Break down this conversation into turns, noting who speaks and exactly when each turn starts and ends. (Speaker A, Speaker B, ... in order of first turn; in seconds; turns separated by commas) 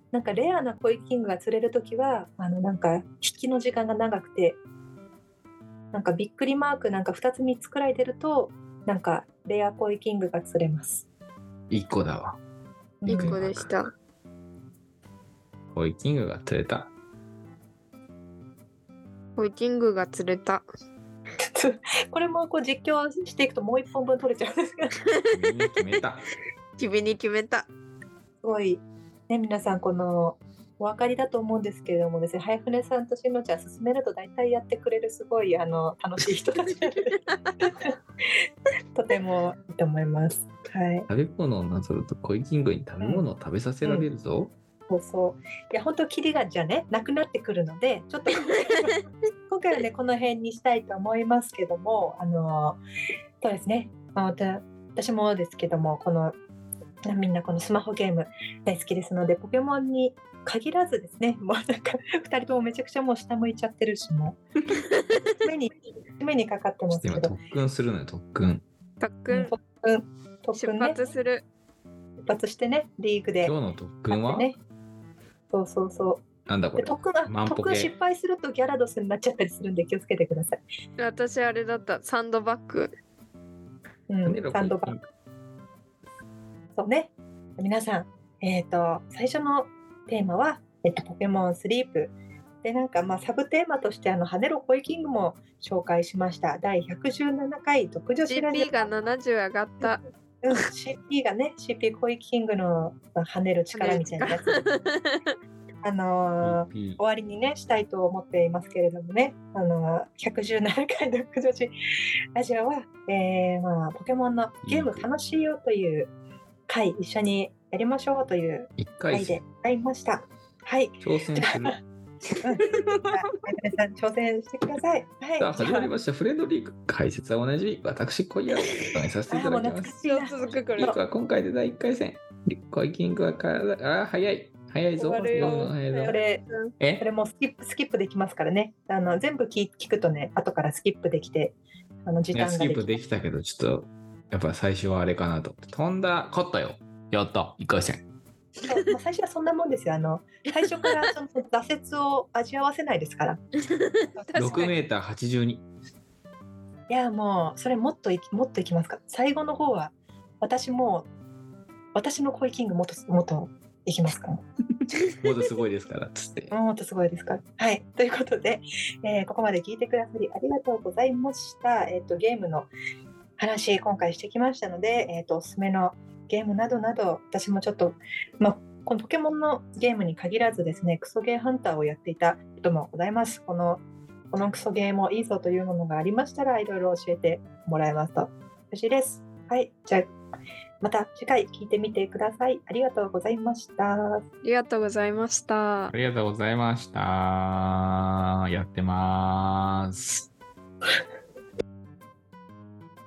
Speaker A: 0.1-4.6, Speaker A: 5.9-11.0, Speaker B: 11.7-12.4, Speaker A: 13.0-13.4, Speaker C: 13.1-13.9, Speaker B: 13.1-13.7, Speaker B: 15.7-16.9, Speaker C: 19.4-20.6, Speaker A: 21.5-24.9, Speaker C: 25.1-25.4, Speaker B: 25.3-26.2, Speaker C: 26.8-27.7, Speaker A: 28.4-37.9, Speaker C: 36.7-37.7, Speaker A: 39.0-41.1, Speaker B: 41.1-44.5, Speaker A: 44.9-52.8, Speaker A: 53.4-56.4, Speaker A: 57.1-64.4, Speaker A: 65.4-67.3, Speaker B: 66.9-68.7, Speaker C: 69.0-69.5, Speaker A: 69.3-71.0, Speaker C: 70.6-71.4, Speaker A: 72.2-73.5, Speaker B: 73.4-74.5, Speaker A: 74.1-74.6, Speaker A: 75.5-80.6, Speaker B: 76.5-77.9, Speaker C: 81.0-82.9, Speaker A: 84.1-84.9, Speaker B: 84.2-85.0, Speaker A: 86.8-92.1, Speaker A: 92.6-98.9, Speaker C: 98.3-100.0, Speaker A: 100.4-104.5, Speaker C: 103.7-105.2, Speaker A: 105.8-111.7, Speaker B: 106.4-107.0, Speaker A: 112.3-116.1, Speaker B: 114.7-115.1, Speaker A: 116.7-121.7, Speaker B: 118.8-119.4, Speaker B: 121.0-121.8, Speaker A: 122.4-125.9, Speaker C: 122.5-123.1, Speaker B: 125.4-129.9, Speaker C: 128.6-128.9, Speaker A: 129.3-131.0, Speaker C: 130.0-130.9, Speaker B: 130.8-136.2, Speaker C: 135.0-136.7, Speaker A: 135.2-136.4, Speaker A: 137.0-141.6, Speaker A: 142.1-142.9, Speaker B: 142.3-148.0, Speaker A: 148.6-153.5, Speaker C: 150.5-151.1, Speaker C: 153.7-154.7, Speaker A: 154.2-154.6, Speaker B: 154.4-155.6, Speaker A: 156.9-161.1, Speaker A: 161.9-164.4, Speaker B: 165.2-166.5, Speaker A: 166.5-172.7, Speaker A: 173.4-183.8, Speaker A: 184.3-190.1, Speaker A: 190.8-194.2, Speaker C: 194.4-195.9, Speaker B: 195.9-200.3